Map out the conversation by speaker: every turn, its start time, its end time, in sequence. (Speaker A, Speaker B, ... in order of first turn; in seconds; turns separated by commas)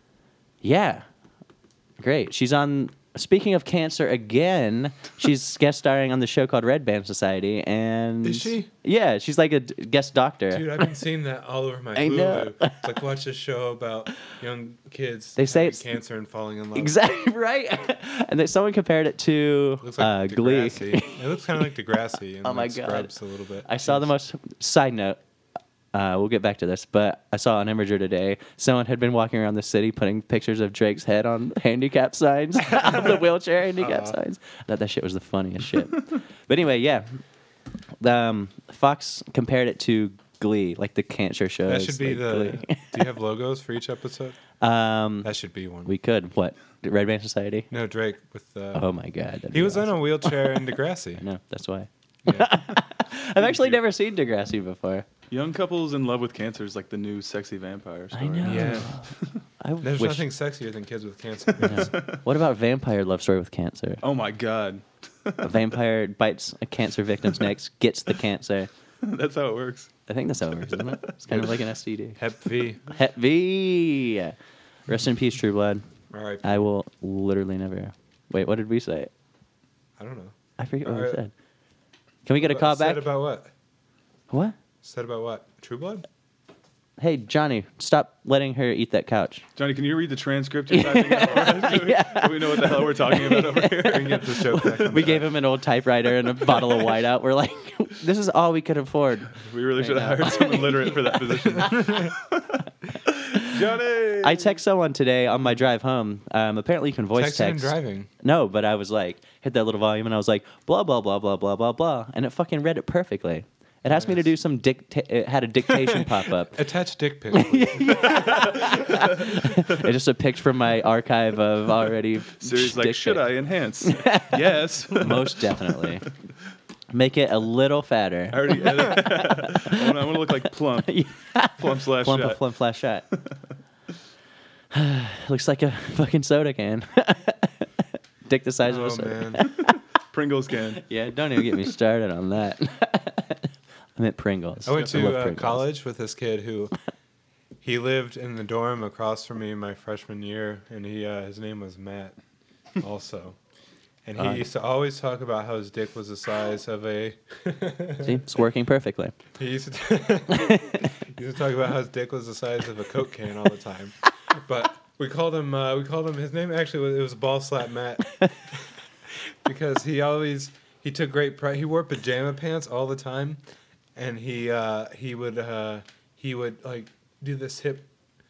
Speaker A: 0.6-1.1, Speaker A: 2.0-10.8, Speaker B: 8.2-8.7, Speaker B: 10.5-16.9, Speaker A: 11.9-12.8, Speaker A: 15.4-15.9, Speaker A: 16.8-21.5, Speaker B: 19.8-24.1, Speaker A: 22.4-25.2, Speaker A: 25.9-37.1, Speaker B: 33.8-34.2, Speaker A: 38.0-43.0, Speaker B: 41.6-44.4, Speaker A: 44.6-45.3, Speaker B: 45.2-45.9, Speaker A: 45.9-47.7, Speaker B: 47.7-48.9, Speaker A: 48.7-50.6, Speaker B: 49.5-51.2, Speaker A: 51.2-55.1, Speaker C: 55.3-59.4, Speaker A: 58.1-60.3, Speaker B: 58.5-58.9, Speaker B: 59.8-61.9, Speaker A: 61.6-64.0, Speaker C: 61.7-62.2, Speaker C: 64.0-65.6, Speaker A: 65.4-68.7, Speaker C: 69.0-69.9, Speaker A: 70.1-72.2, Speaker C: 70.5-71.5, Speaker B: 72.2-72.8, Speaker A: 72.8-74.4, Speaker A: 74.9-75.8, Speaker B: 76.1-76.7, Speaker A: 76.4-79.1, Speaker B: 80.0-81.2, Speaker A: 80.6-81.3, Speaker A: 82.3-83.1, Speaker B: 82.4-83.5, Speaker A: 84.3-84.5, Speaker B: 84.8-86.1, Speaker A: 87.0-89.4, Speaker C: 89.6-94.9, Speaker A: 90.7-102.1, Speaker B: 93.8-95.3, Speaker C: 99.4-102.3, Speaker C: 103.3-104.5, Speaker A: 104.2-116.6, Speaker B: 107.2-108.1, Speaker B: 113.9-114.2, Speaker B: 116.5-118.2, Speaker A: 117.3-123.3, Speaker C: 122.4-125.8, Speaker A: 123.8-124.3, Speaker A: 124.9-126.1, Speaker A: 126.9-129.8, Speaker C: 128.3-131.0, Speaker A: 130.9-133.1, Speaker C: 131.6-132.4, Speaker A: 134.7-137.7, Speaker A: 138.3-139.8, Speaker B: 138.6-139.5, Speaker C: 140.1-140.8, Speaker A: 140.8-145.7, Speaker B: 144.7-146.7, Speaker B: 147.6-152.2, Speaker B: 152.8-153.4, Speaker B: 154.1-158.2, Speaker A: 154.2-154.4, Speaker A: 158.0-159.2, Speaker B: 159.4-168.1, Speaker A: 160.4-160.9, Speaker B: 169.4-173.4, Speaker B: 174.0-177.9